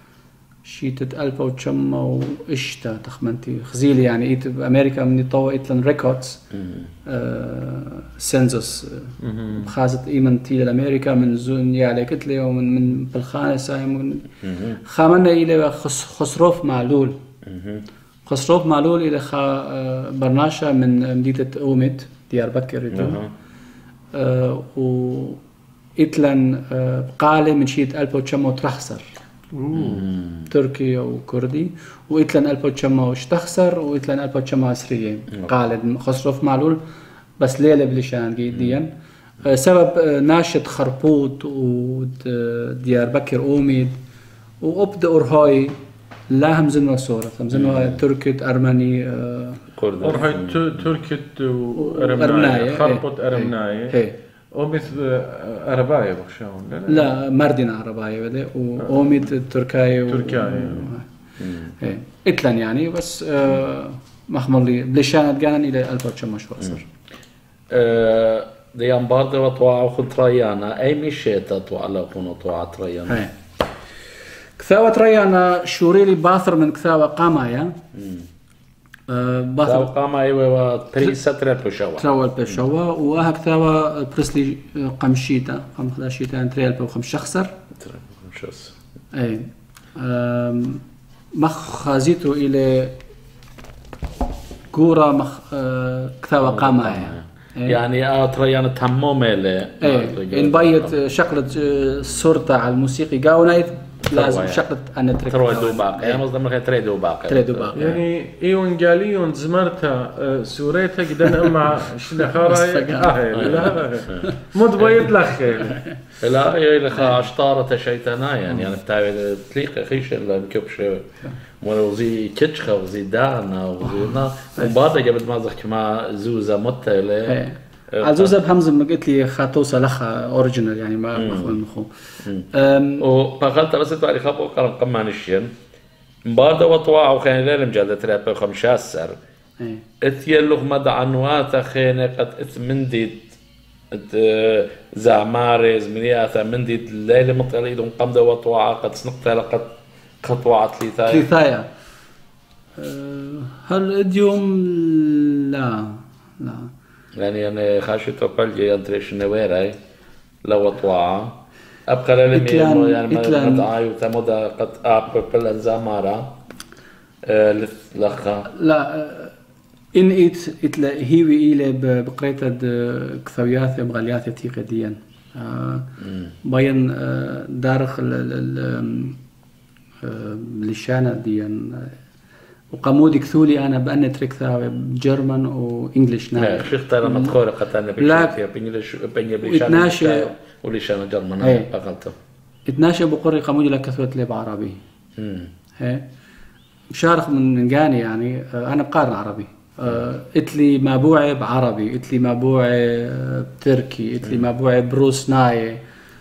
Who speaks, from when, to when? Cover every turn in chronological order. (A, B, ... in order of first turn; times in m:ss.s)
0:00.6-0:06.4 A
0:06.5-0:06.9 B
0:07.0-0:17.2 A
0:09.2-0:09.7 C
0:14.4-0:14.8 B
0:17.4-0:17.8 B
0:18.2-0:23.2 A
0:22.9-0:23.3 B
0:24.1-0:25.4 A
0:26.0-0:29.0 A
0:29.5-0:30.0 C
0:29.7-0:30.4 B
0:30.5-0:36.8 A
0:37.4-0:38.9 A
0:38.5-0:38.8 B
0:39.4-0:44.0 A
0:44.6-0:45.8 A
0:46.3-0:49.6 A
0:47.5-0:48.0 B
0:49.7-0:50.8 B
0:50.0-0:54.0 C
0:51.8-0:54.2 A
0:54.5-0:57.1 C
0:56.9-1:01.0 A
1:00.1-1:01.0 C
1:01.4-1:01.7 B
1:01.6-1:06.8 A
1:07.7-1:13.2 B
1:13.1-1:13.3 A
1:14.6-1:17.8 A
1:17.9-1:18.3 B
1:19.1-1:19.9 A
1:19.6-1:22.6 B
1:22.0-1:27.5 A
1:27.8-1:28.7 B
1:29.1-1:30.8 A
1:31.3-1:32.9 A
1:34.7-1:37.8 A
1:36.4-1:40.9 B
1:39.8-1:46.2 A
1:44.1-1:44.6 B
1:45.3-1:48.0 B
1:47.3-1:48.0 A
1:47.7-1:55.8 C
1:52.2-1:54.3 A
1:53.3-1:54.2 B
1:54.8-1:55.0 B
1:56.2-2:07.4 B
2:07.2-2:11.9 A
2:07.9-2:08.3 B
2:11.1-2:11.6 B
2:12.5-2:13.0 A
2:13.0-2:15.5 B
2:16.2-2:19.2 B
2:19.6-2:19.8 A
2:20.0-2:23.4 B
2:23.9-2:31.3 B
2:31.0-2:31.7 A
2:32.8-2:36.7 A
2:37.1-2:39.8 B
2:40.4-2:46.3 B
2:42.3-2:43.7 A
2:47.2-2:48.5 B
2:48.4-2:49.3 A
2:49.9-2:59.2 A
2:56.0-2:56.3 B
3:00.0-3:02.0 A
3:02.7-3:07.4 A
3:06.4-3:12.1 B
3:08.0-3:08.3 A
3:09.4-3:10.3 A
3:11.4-3:11.7 A
3:12.7-3:14.8 A
3:15.2-3:15.5 B
3:15.8-3:16.0 A
3:16.9-3:25.8 A